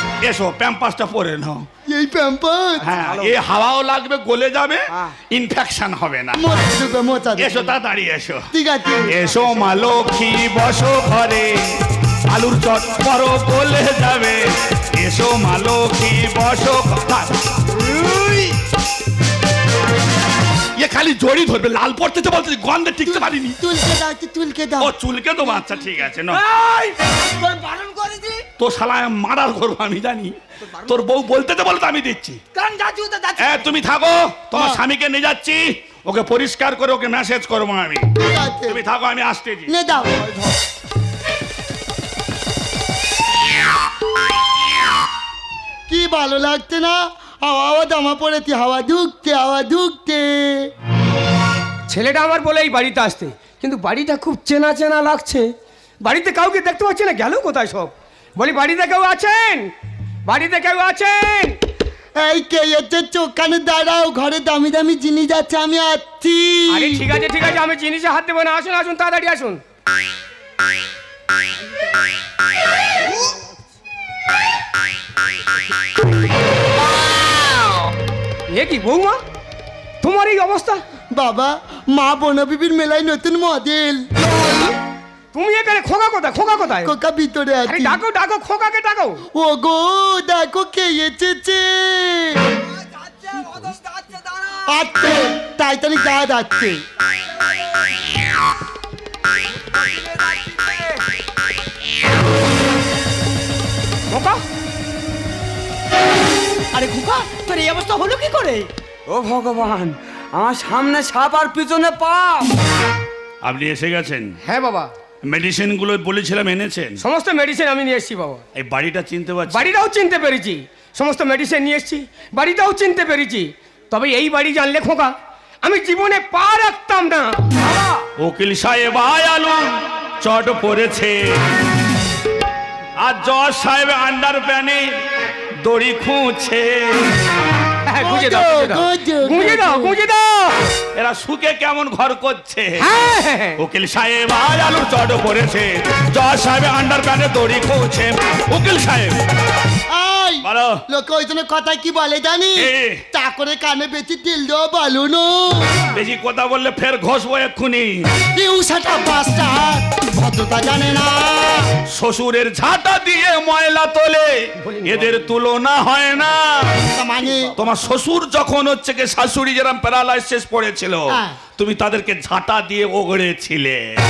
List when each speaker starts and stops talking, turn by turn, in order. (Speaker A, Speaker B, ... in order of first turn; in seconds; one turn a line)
Speaker A: 0.2-1.7
Speaker B: 1.9-2.9
Speaker A: 2.8-6.6
Speaker C: 2.9-3.4
Speaker B: 6.3-7.7
Speaker A: 7.4-8.5
Speaker B: 8.5-9.1
Speaker A: 9.1-14.4
Speaker A: 15.0-17.3
Speaker C: 17.7-18.6
Speaker A: 20.8-23.6
Speaker B: 23.1-24.9
Speaker A: 24.8-26.4
Speaker C: 26.3-28.4
Speaker A: 28.6-32.4
Speaker C: 30.6-31.1
Speaker C: 32.5-33.8
Speaker A: 33.4-38.1
Speaker B: 34.5-34.8
Speaker B: 38.2-38.8
Speaker A: 38.7-39.7
Speaker B: 39.7-40.2
Speaker C: 40.0-40.5
Speaker B: 45.9-50.7
Speaker D: 51.9-55.5
Speaker D: 56.0-59.7
Speaker D: 60.3-61.6
Speaker B: 62.2-67.0
Speaker D: 66.7-69.6
Speaker D: 78.5-79.2
Speaker D: 80.0-80.8
Speaker B: 81.1-84.1
Speaker D: 85.3-86.9
Speaker B: 86.8-88.0
Speaker D: 87.7-89.2
Speaker B: 89.3-92.4
Speaker C: 92.6-94.7
Speaker B: 94.7-96.8
Speaker C: 97.0-98.0
Speaker C: 99.6-101.0
Speaker D: 104.1-104.4
Speaker E: 106.7-108.7
Speaker C: 109.1-112.5
Speaker A: 113.4-114.4
Speaker D: 114.4-114.9
Speaker A: 115.3-117.0
Speaker D: 117.0-118.4
Speaker A: 118.5-119.7
Speaker D: 119.5-125.1
Speaker D: 125.6-127.5
Speaker A: 128.2-131.4
Speaker A: 133.0-135.0
Speaker A: 135.6-137.0
Speaker D: 137.8-140.6
Speaker B: 138.0-140.0
Speaker A: 140.9-142.8
Speaker D: 142.8-143.6
Speaker A: 143.6-149.2
Speaker B: 149.9-155.9
Speaker A: 150.4-150.8
Speaker A: 152.6-153.0
Speaker A: 155.9-158.1
Speaker B: 158.3-161.7
Speaker A: 161.9-166.8
Speaker B: 166.9-167.6
Speaker A: 167.5-173.8
Speaker B: 171.1-171.4